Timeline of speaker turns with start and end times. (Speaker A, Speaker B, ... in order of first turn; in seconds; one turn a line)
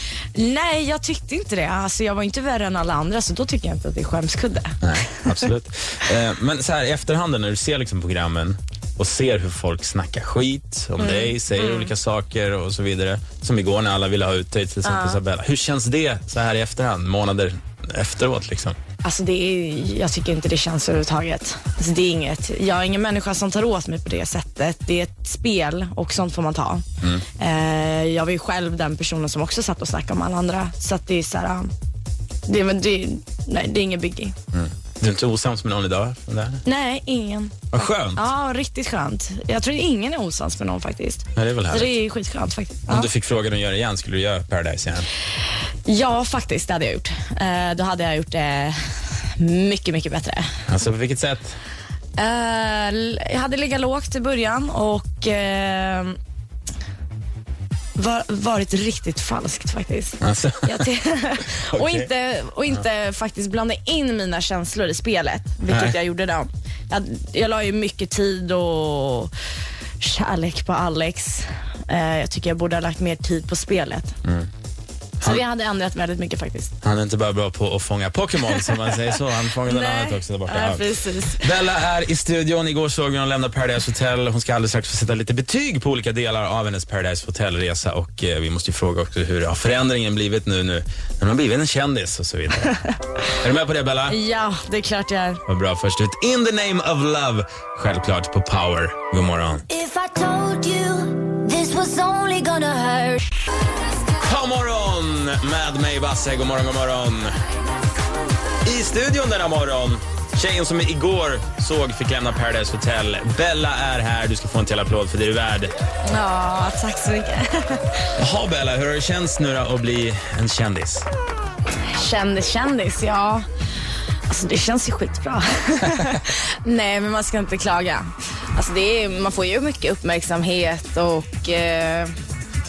Speaker A: 0.3-4.8
Speaker B: 4.8-18.8
Speaker A: 11.0-11.9
Speaker A: 14.8-15.2
Speaker A: 19.0-26.8
Speaker A: 27.4-31.7
Speaker A: 32.5-34.3
Speaker B: 34.5-36.6
Speaker A: 36.6-43.1
Speaker B: 37.7-38.2
Speaker B: 41.4-41.9
Speaker B: 42.9-45.1
Speaker A: 45.9-48.8
Speaker A: 49.4-50.5
Speaker B: 50.7-51.5
Speaker A: 52.2-56.1
Speaker A: 58.0-69.3
Speaker B: 60.2-60.9
Speaker B: 61.7-62.1
Speaker B: 65.7-66.0
Speaker A: 70.0-74.1
Speaker A: 75.2-76.7
Speaker B: 76.8-80.8
Speaker A: 79.6-81.5
Speaker B: 81.4-92.7
Speaker B: 93.4-94.2
Speaker A: 94.1-95.4
Speaker B: 95.5-99.7
Speaker C: 99.7-103.2
Speaker B: 104.2-107.3
Speaker B: 108.6-115.7
Speaker A: 116.0-118.0
Speaker B: 118.2-121.1
Speaker A: 121.9-123.4
Speaker A: 124.3-132.1